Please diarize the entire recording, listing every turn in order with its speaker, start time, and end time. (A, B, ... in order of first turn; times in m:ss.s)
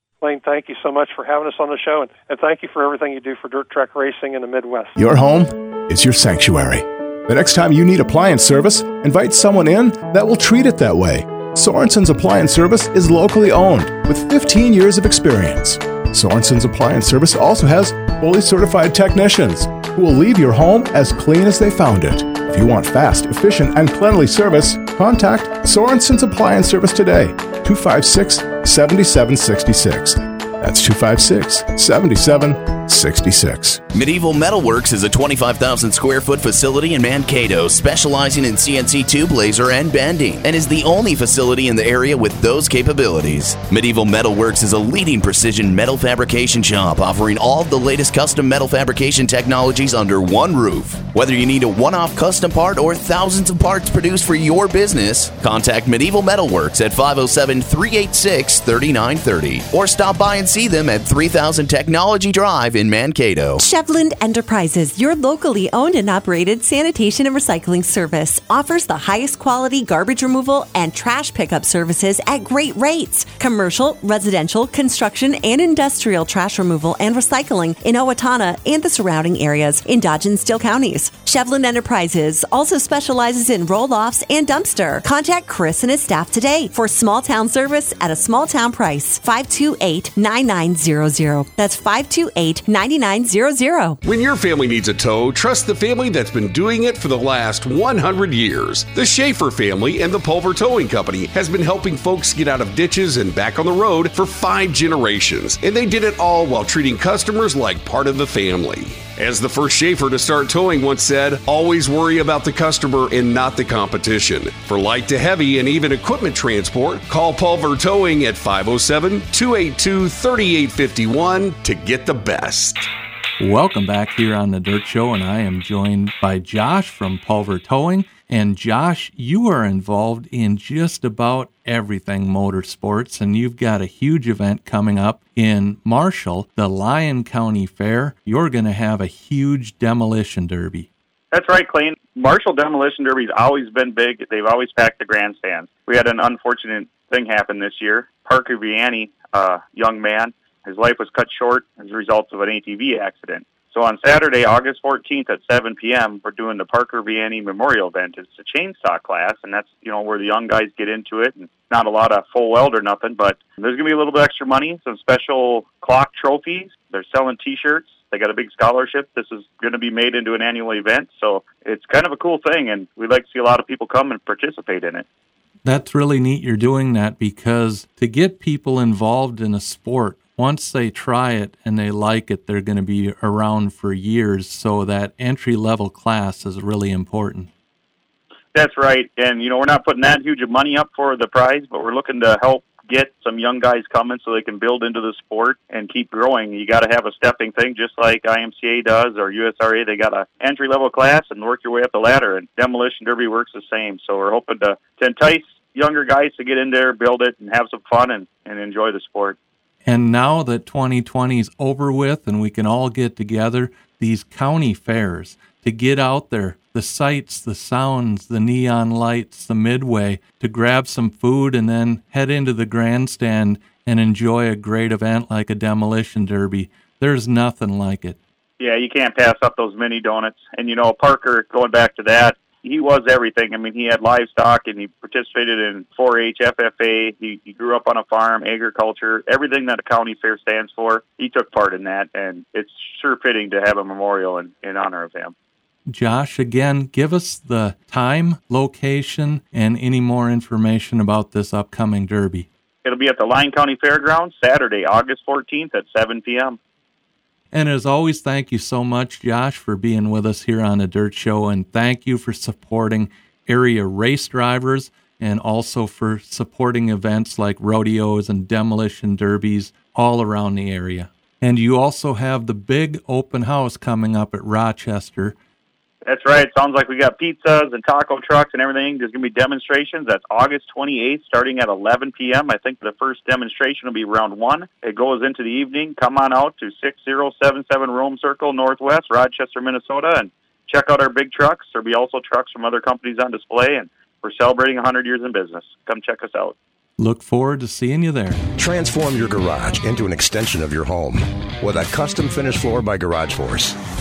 0:00.2-0:05.0 A
0:05.0-0:33.8 B
0:33.9-1:03.6 C
1:03.6-1:34.0 D
1:34.0-2:02.9 E
2:03.4-2:20.9 F
2:21.3-2:55.0 G
2:55.6-3:07.5 F
3:08.5-3:29.4 G
3:29.8-3:48.2 F
3:48.6-4:05.3 G
4:05.9-4:12.5 F
4:12.8-4:16.6 G
4:17.5-4:35.3 F
4:36.0-4:56.5 G
4:57.0-4:58.4 F
4:58.6-5:03.8 H